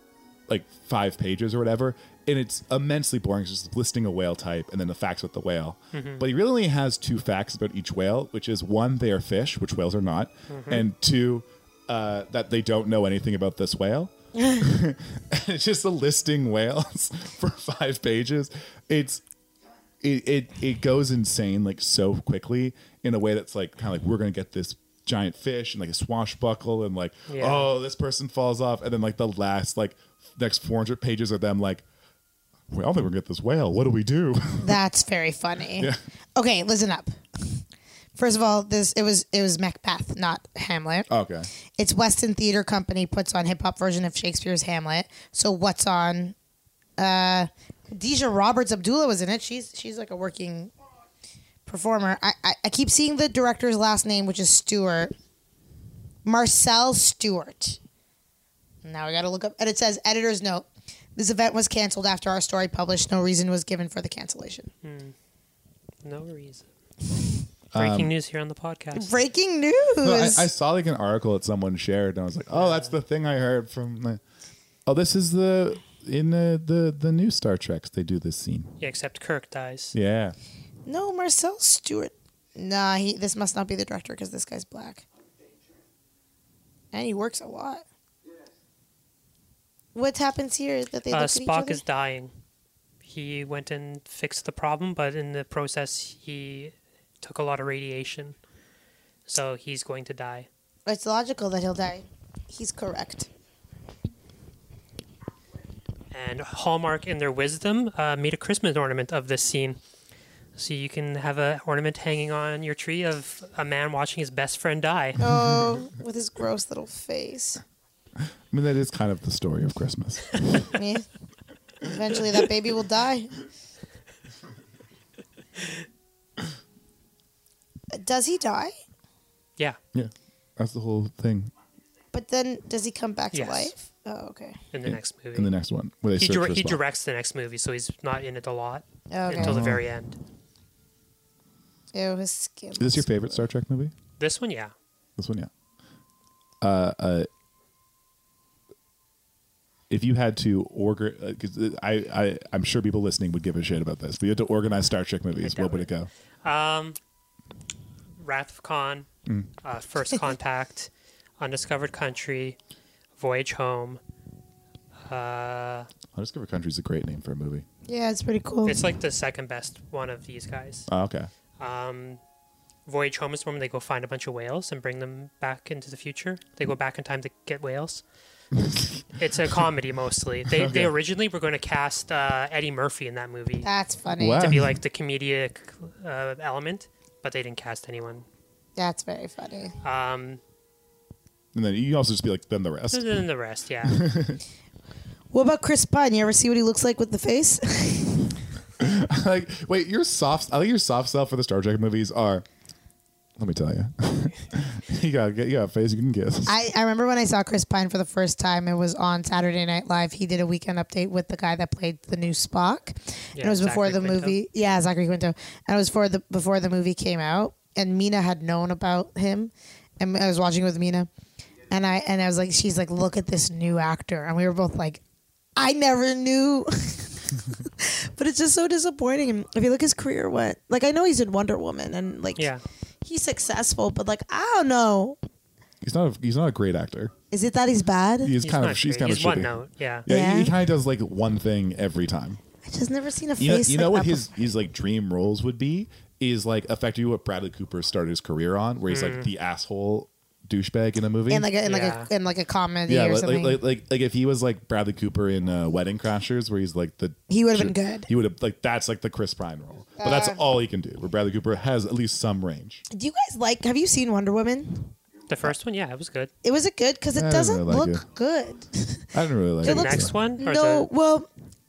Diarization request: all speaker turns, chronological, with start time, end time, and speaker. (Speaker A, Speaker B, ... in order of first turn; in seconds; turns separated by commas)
Speaker A: 0.5-19.2, Speaker B: 5.9-6.2, Speaker B: 10.5-10.8, Speaker A: 20.0-31.8, Speaker B: 27.3-27.7, Speaker A: 32.7-34.8, Speaker C: 34.6-37.1, Speaker C: 38.1-41.1, Speaker A: 41.1-41.5, Speaker C: 41.7-46.3, Speaker C: 47.0-50.7, Speaker C: 51.6-55.1, Speaker C: 56.2-57.8, Speaker C: 58.8-64.7, Speaker B: 64.8-65.1, Speaker B: 66.0-66.7, Speaker A: 67.7-68.1, Speaker B: 67.8-69.1, Speaker C: 68.9-70.5, Speaker A: 70.0-74.2, Speaker B: 72.5-72.9, Speaker A: 74.8-78.7, Speaker B: 78.8-79.9, Speaker A: 79.9-80.3, Speaker C: 80.8-85.0, Speaker C: 86.9-87.8, Speaker C: 89.9-91.8, Speaker B: 91.1-92.3, Speaker B: 93.0-98.3, Speaker B: 99.2-100.5, Speaker C: 100.9-103.3, Speaker B: 106.1-109.8, Speaker B: 110.5-115.2, Speaker C: 115.2-117.6, Speaker A: 115.3-115.7, Speaker A: 118.5-120.7, Speaker C: 120.7-121.1, Speaker C: 121.8-123.4, Speaker C: 127.9-128.7, Speaker A: 129.9-131.5, Speaker C: 132.1-134.6, Speaker B: 133.3-133.7, Speaker B: 134.7-135.5, Speaker A: 134.8-136.8, Speaker B: 136.2-140.2, Speaker C: 139.1-139.7, Speaker A: 139.4-139.8, Speaker C: 141.9-143.1, Speaker A: 142.8-143.9, Speaker B: 144.2-144.7, Speaker A: 145.2-145.5, Speaker A: 146.6-147.3, Speaker A: 149.9-156.1, Speaker B: 155.4-155.9, Speaker B: 156.4-157.0, Speaker B: 158.2-159.1, Speaker B: 159.6-162.6, Speaker B: 163.2-164.0, Speaker B: 165.1-165.9, Speaker A: 166.1-167.6, Speaker C: 167.9-168.8, Speaker B: 168.7-170.9, Speaker A: 170.9-171.3, Speaker B: 171.6-172.2, Speaker B: 172.8-178.0, Speaker A: 178.5-179.0, Speaker B: 179.2-183.7, Speaker A: 180.5-180.9, Speaker C: 183.6-184.5, Speaker A: 184.1-184.8, Speaker B: 184.3-188.2, Speaker C: 188.8-189.7, Speaker B: 189.8-190.4, Speaker A: 191.5-193.2, Speaker B: 192.9-194.0, Speaker A: 193.8-194.4, Speaker C: 195.3-198.4, Speaker A: 198.8-202.4, Speaker A: 203.4-206.5, Speaker C: 206.5-221.1, Speaker B: 213.3-214.4, Speaker C: 221.7-225.0, Speaker C: 225.6-232.5, Speaker B: 232.4-232.6, Speaker C: 233.0-235.2, Speaker A: 235.8-237.1, Speaker C: 237.3-238.3, Speaker A: 238.2-239.5, Speaker B: 238.4-240.1, Speaker A: 240.0-242.4, Speaker C: 240.1-240.6, Speaker C: 242.6-244.3, Speaker A: 243.4-251.5, Speaker B: 248.9-249.3, Speaker C: 251.3-253.6, Speaker B: 251.6-252.1, Speaker A: 252.9-262.8, Speaker C: 257.3-258.1, Speaker C: 260.0-260.4, Speaker C: 262.9-264.9, Speaker B: 265.3-266.3, Speaker C: 266.4-271.3, Speaker A: 267.1-268.0, Speaker A: 269.1-270.1, Speaker B: 269.6-270.9